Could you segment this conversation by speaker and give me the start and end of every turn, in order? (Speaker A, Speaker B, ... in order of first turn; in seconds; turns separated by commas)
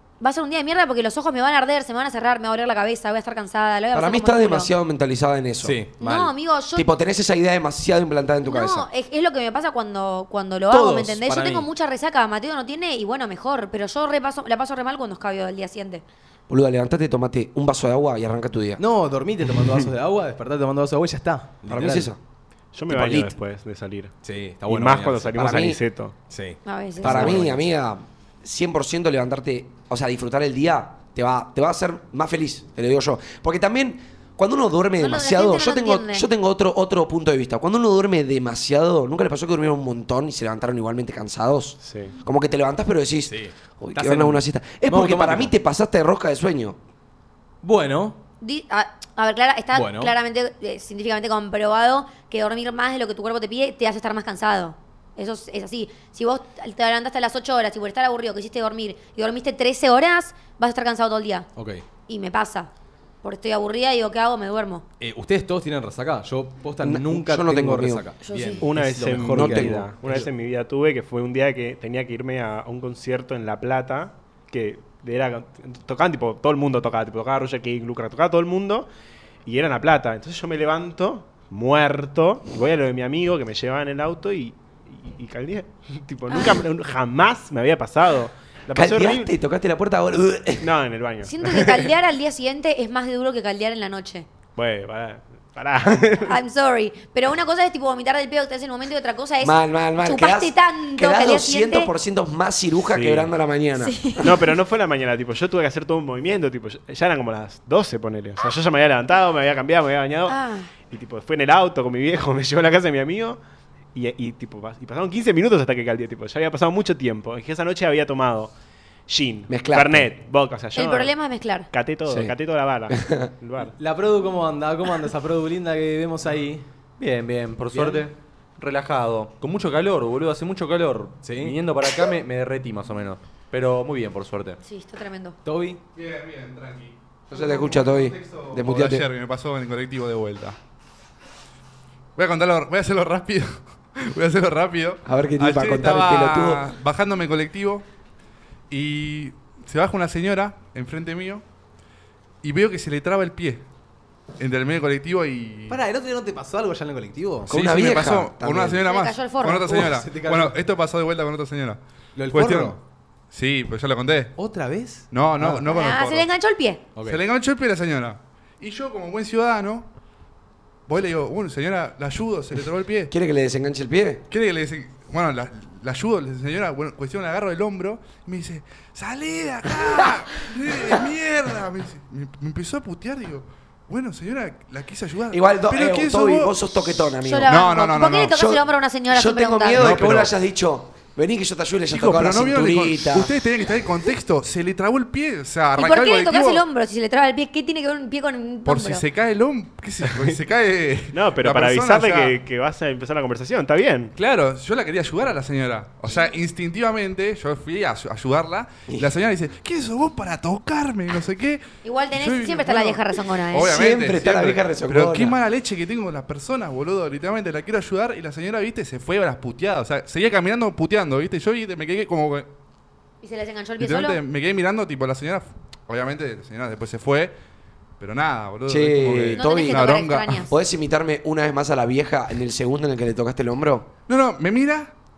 Speaker A: 0.2-4.7, Speaker B: 3.9-5.8, Speaker C: 5.6-6.3, Speaker A: 6.0-6.9, Speaker B: 6.7-8.9, Speaker A: 8.4-16.0, Speaker C: 10.7-11.7, Speaker B: 16.5-18.8, Speaker C: 18.8-22.1, Speaker B: 21.7-22.2, Speaker D: 22.7-24.1, Speaker B: 22.9-23.4, Speaker C: 24.2-25.4, Speaker D: 24.7-26.1, Speaker B: 25.4-25.8, Speaker C: 26.3-27.6, Speaker A: 26.6-27.4, Speaker B: 27.0-46.8, Speaker A: 35.0-36.3, Speaker D: 41.8-42.1, Speaker C: 43.2-45.5, Speaker C: 47.6-48.2, Speaker A: 48.4-61.5, Speaker C: 49.7-50.1, Speaker C: 61.5-61.8, Speaker A: 62.1-62.7, Speaker A: 63.2-64.8, Speaker C: 65.0-70.3, Speaker B: 66.8-68.0, Speaker A: 68.2-68.6, Speaker D: 68.6-78.9, Speaker B: 69.3-69.9, Speaker D: 79.5-89.3, Speaker A: 86.3-86.6, Speaker B: 88.7-90.7, Speaker D: 90.6-91.7, Speaker A: 91.2-94.3, Speaker D: 94.5-96.3, Speaker A: 96.2-101.9, Speaker B: 99.4-104.3, Speaker D: 102.9-103.3, Speaker A: 103.8-104.2, Speaker D: 104.2-110.3, Speaker A: 110.3-110.7, Speaker D: 110.9-113.4, Speaker D: 113.9-118.5, Speaker D: 119.1-121.1, Speaker B: 119.5-120.0, Speaker A: 120.7-121.7, Speaker D: 121.7-123.7, Speaker B: 122.0-122.3, Speaker B: 122.9-123.3, Speaker C: 123.8-126.7, Speaker E: 127.0-134.6, Speaker C: 127.7-128.0, Speaker C: 131.2-131.6, Speaker A: 134.6-135.4, Speaker C: 135.4-135.8, Speaker F: 135.9-140.6, Speaker B: 137.3-139.0, Speaker F: 142.2-147.8, Speaker B: 145.1-146.6, Speaker F: 148.7-151.4, Speaker F: 152.4-153.6, Speaker F: 154.4-155.8, Speaker C: 155.7-157.5, Speaker B: 157.5-158.8, Speaker F: 157.5-161.8, Speaker A: 158.8-159.7, Speaker C: 159.7-160.6, Speaker C: 162.2-162.8, Speaker F: 162.3-162.8, Speaker F: 163.3-164.3, Speaker C: 164.4-165.7, Speaker F: 165.1-166.3, Speaker A: 165.7-166.8, Speaker F: 167.0-169.8, Speaker F: 170.9-173.1, Speaker B: 173.1-174.2, Speaker F: 174.3-188.3, Speaker B: 185.3-187.6, Speaker A: 187.2-189.9, Speaker B: 188.3-193.3, Speaker F: 189.7-190.3, Speaker F: 191.9-196.6, Speaker A: 195.8-199.0, Speaker F: 198.6-202.3, Speaker D: 201.1-204.1, Speaker F: 204.2-222.5, Speaker A: 211.8-213.7, Speaker B: 213.5-215.4, Speaker A: 223.2-224.2, Speaker F: 223.8-227.3, Speaker F: 228.0-230.4, Speaker B: 228.7-229.9, Speaker A: 229.4-230.5, Speaker B: 230.5-233.9, Speaker F: 234.1-234.9